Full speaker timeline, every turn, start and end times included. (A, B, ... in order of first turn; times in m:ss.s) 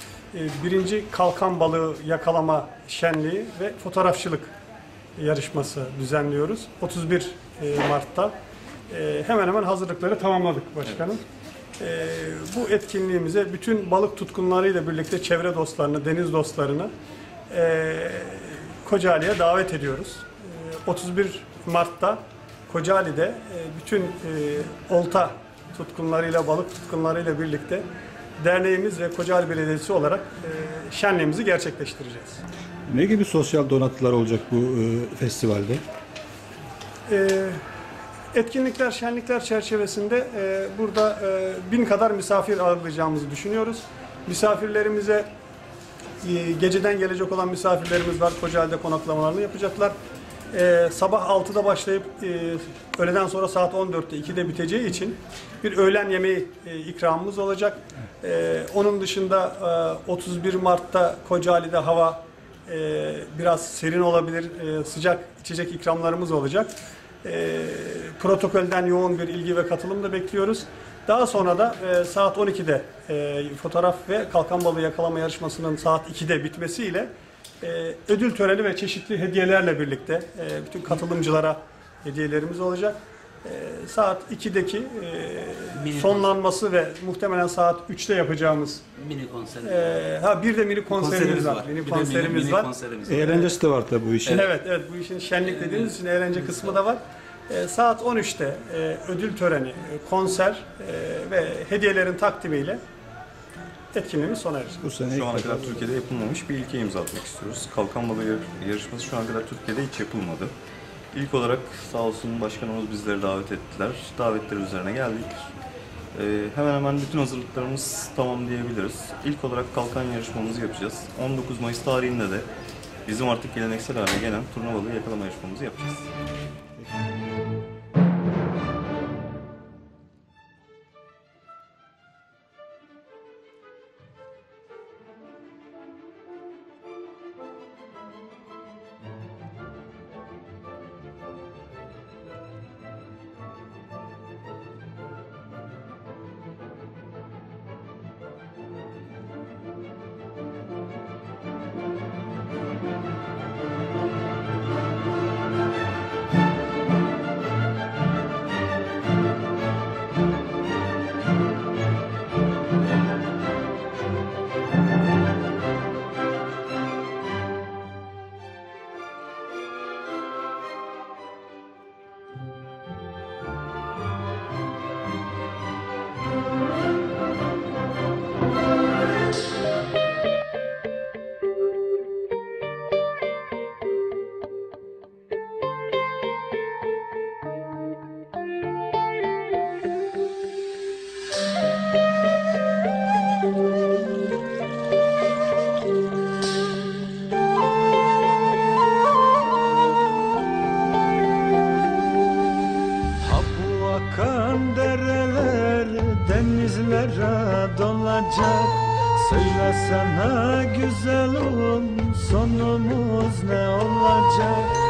0:00.3-0:04.5 A
0:05.2-0:08.3 A
0:08.9-0:11.2 A
0:11.8-0:16.9 A
0:17.5-0:27.8 A
0:28.4-0:32.4 A
0:32.9-0:35.8 B
0:37.1-0:37.6 A
0:38.3-0:45.3 A
0:46.2-0:49.9 A
0:50.5-1:06.7 A
1:07.2-1:17.1 A
1:17.6-1:28.8 A
1:25.8-1:26.2 C
1:29.0-1:29.8 C
1:29.6-1:33.5 A
1:30.9-1:33.4 C
1:33.1-1:34.4 B
1:34.3-1:42.8 A
1:35.6-1:35.9 C
1:43.9-1:44.8 A
1:44.8-1:45.8 B
1:45.1-1:50.5 D
1:51.1-1:55.5 D
1:56.2-2:02.5 D
2:03.1-2:06.1 D
3:23.2-3:34.7 E